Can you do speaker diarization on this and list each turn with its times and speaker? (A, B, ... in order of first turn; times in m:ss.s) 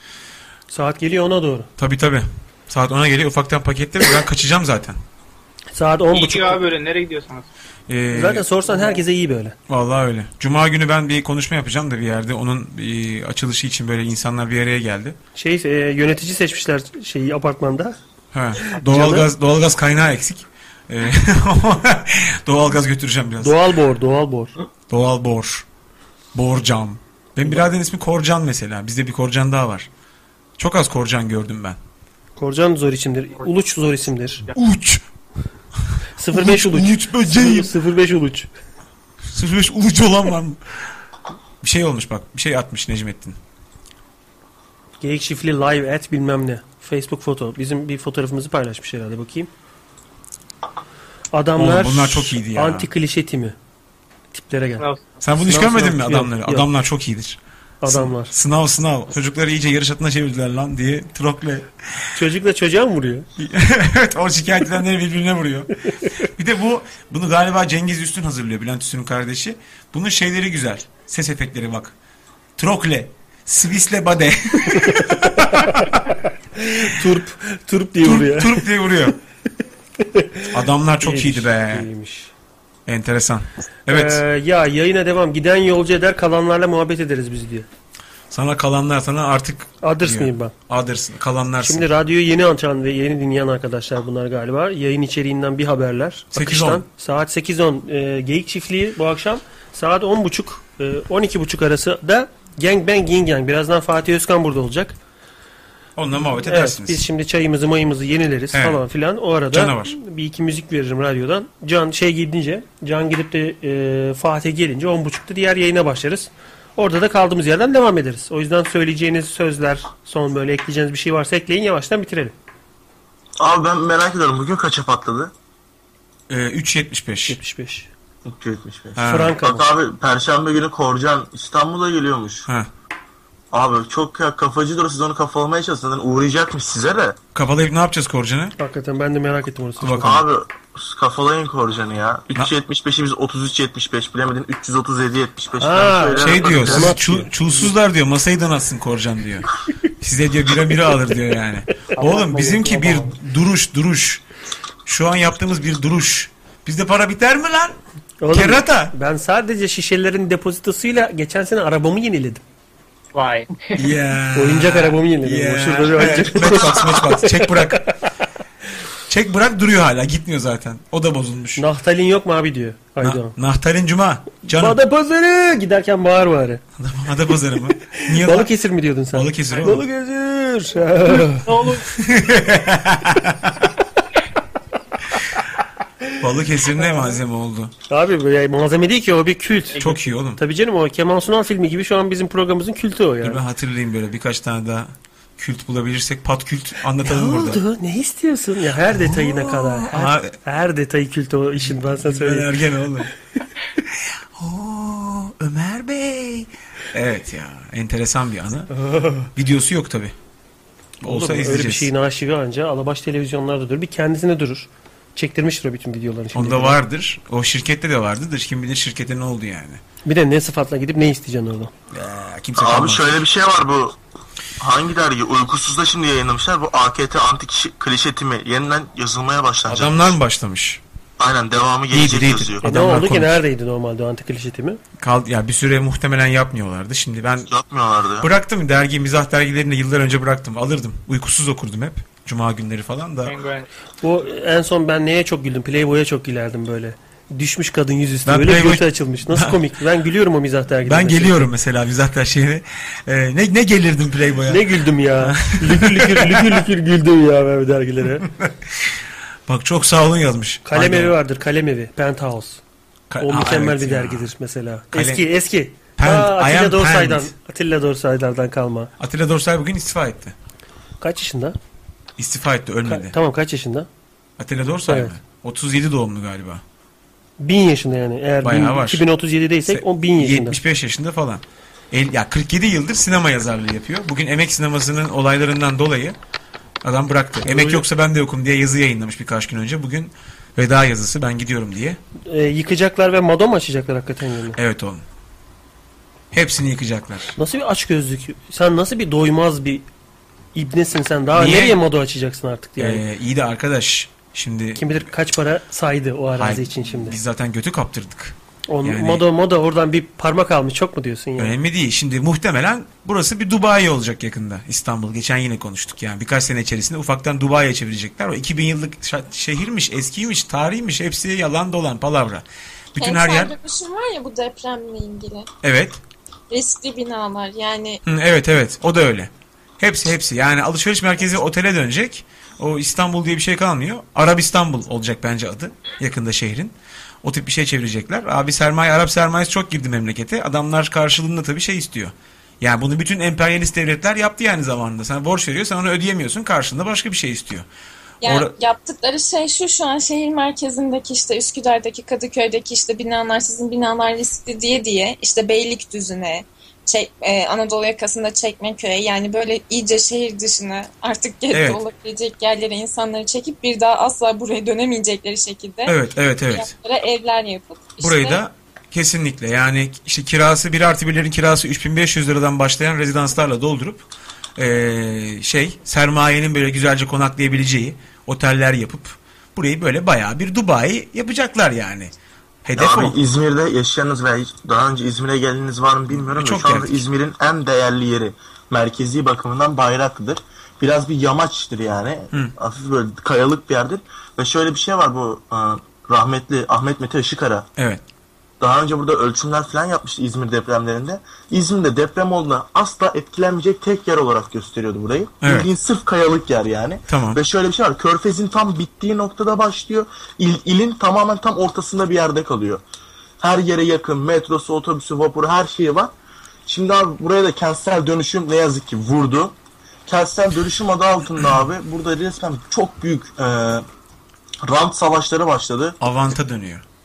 0:00.7-0:01.7 A
0:01.8-0:05.0 B
0:05.8-0:06.6 A
0:06.1-0:07.5 C
0:07.9-0:08.5 B
0:08.1-0:09.6 A
0:08.7-0:09.0 C
0:09.7-0:15.2 B
0:15.4-0:18.0 A
0:18.3-0:23.6 B
0:18.6-0:19.3 A
0:23.4-0:24.5 A
0:24.9-0:25.7 B
0:26.3-0:29.9 B
0:30.6-0:31.8 B
0:32.4-0:34.5 A
0:34.5-0:35.0 B
0:36.2-0:38.5 A
0:36.3-0:37.7 B
0:39.3-0:40.6 B
0:41.6-0:43.4 B
0:45.0-0:49.5 A
0:51.3-0:53.6 A
0:51.6-0:52.9 B
0:54.3-0:54.9 A
0:54.8-0:55.2 C
0:55.2-1:02.0 B
0:55.4-0:56.7 A
0:57.8-0:58.3 A
1:02.1-1:03.3 A
1:03.4-1:12.0 B
1:12.6-1:16.0 B
1:14.7-1:18.7 A
1:18.0-1:19.2 B
1:20.0-1:22.3 A
1:20.5-1:21.9 B
1:22.9-1:24.2 B
1:23.9-1:27.7 A
1:28.3-1:31.9 B
1:29.8-1:30.5 A
1:31.6-1:45.0 A
1:36.3-1:36.8 B
1:46.0-1:47.1 B
1:46.4-2:02.4 A
1:48.5-1:48.8 B
1:49.5-1:50.0 B
2:03.4-2:05.3 D
2:06.3-2:07.4 B
2:07.3-2:07.9 A
2:08.2-2:12.5 D
2:09.0-2:09.4 B
2:09.0-2:09.7 A
2:13.5-2:17.2 D
2:17.4-2:18.6 B
2:18.6-2:20.2 A
2:19.8-2:20.2 B
2:19.9-2:27.0 D
2:25.6-2:27.7 A
2:26.2-2:34.2 B
2:31.9-2:33.1 A
2:34.8-2:37.8 B
2:38.2-2:42.4 A
2:38.3-2:38.9 B
2:43.1-2:43.8 C
2:43.8-2:47.9 B
2:44.4-2:48.0 A
2:49.1-2:51.6 B
2:51.6-2:53.4 A
2:53.0-2:54.8 B
2:54.5-2:56.6 A
2:56.8-2:58.5 B
2:57.9-3:01.5 A
2:59.1-2:59.9 B
3:01.3-3:01.9 C
3:01.9-3:03.7 B
3:06.2-3:07.7 B
3:07.9-3:13.4 A
3:09.8-3:10.4 B
3:13.2-3:17.6 B
3:17.0-3:22.5 A
3:18.9-3:20.4 B
3:21.6-3:23.1 B
3:23.8-3:28.7 B
3:28.7-3:29.3 A
3:29.3-3:30.2 B
3:31.0-3:31.9 B
3:31.0-3:36.8 A
3:36.3-3:39.8 B
3:40.0-3:41.7 A
3:41.9-3:43.2 B
3:42.6-3:44.0 D
3:44.6-3:50.2 D
3:49.7-3:50.8 B
3:51.2-3:52.6 D
3:51.9-3:53.4 B
3:52.6-3:54.8 A
3:55.0-3:57.5 B
3:57.5-3:58.3 D
3:58.2-4:03.4 B
4:03.2-4:03.7 C
4:04.0-4:11.5 A
4:08.2-4:09.6 B
4:10.8-4:16.6 B
4:14.5-4:18.3 A
4:18.2-4:21.2 B
4:20.6-4:22.6 A
4:23.1-4:24.3 B
4:23.2-4:28.9 A
4:24.9-4:25.3 B
4:26.0-4:27.3 B
4:29.0-4:30.4 B
4:31.0-4:31.6 A
4:32.2-4:33.2 B
4:32.9-4:33.9 A
4:34.4-4:36.6 B
4:34.9-4:35.2 A
4:37.4-4:40.6 A
4:38.4-4:39.1 B
4:39.7-4:46.2 B
4:46.8-4:52.0 B
4:47.4-4:47.8 A
4:52.3-4:54.6 A
4:54.6-4:55.0 B
4:56.3-4:57.4 B
4:57.4-4:59.9 A
5:00.6-5:03.0 A
5:01.3-5:01.8 B
5:02.8-5:05.1 B
5:04.8-5:07.2 A
5:06.4-5:09.2 B
5:08.7-5:11.6 A
5:11.4-5:23.6 B
5:23.0-5:25.5 E
5:25.6-5:26.0 B
5:26.5-5:28.0 E
5:28.0-5:47.7 B
5:48.2-5:48.5 B
5:48.2-6:06.0 E
6:01.5-6:01.8 B
6:05.9-6:06.7 B
6:06.5-6:08.4 E
6:08.0-6:22.1 B
6:22.6-6:23.2 B
6:22.8-6:37.7 D
6:26.1-6:27.1 B
6:37.8-6:38.0 B
6:38.6-6:52.8 D
6:45.4-6:45.7 B
6:47.1-6:47.4 B
6:53.4-6:56.1 D
6:56.7-6:59.6 D
7:00.1-7:03.8 D
7:04.6-7:06.0 D
7:06.0-7:06.8 B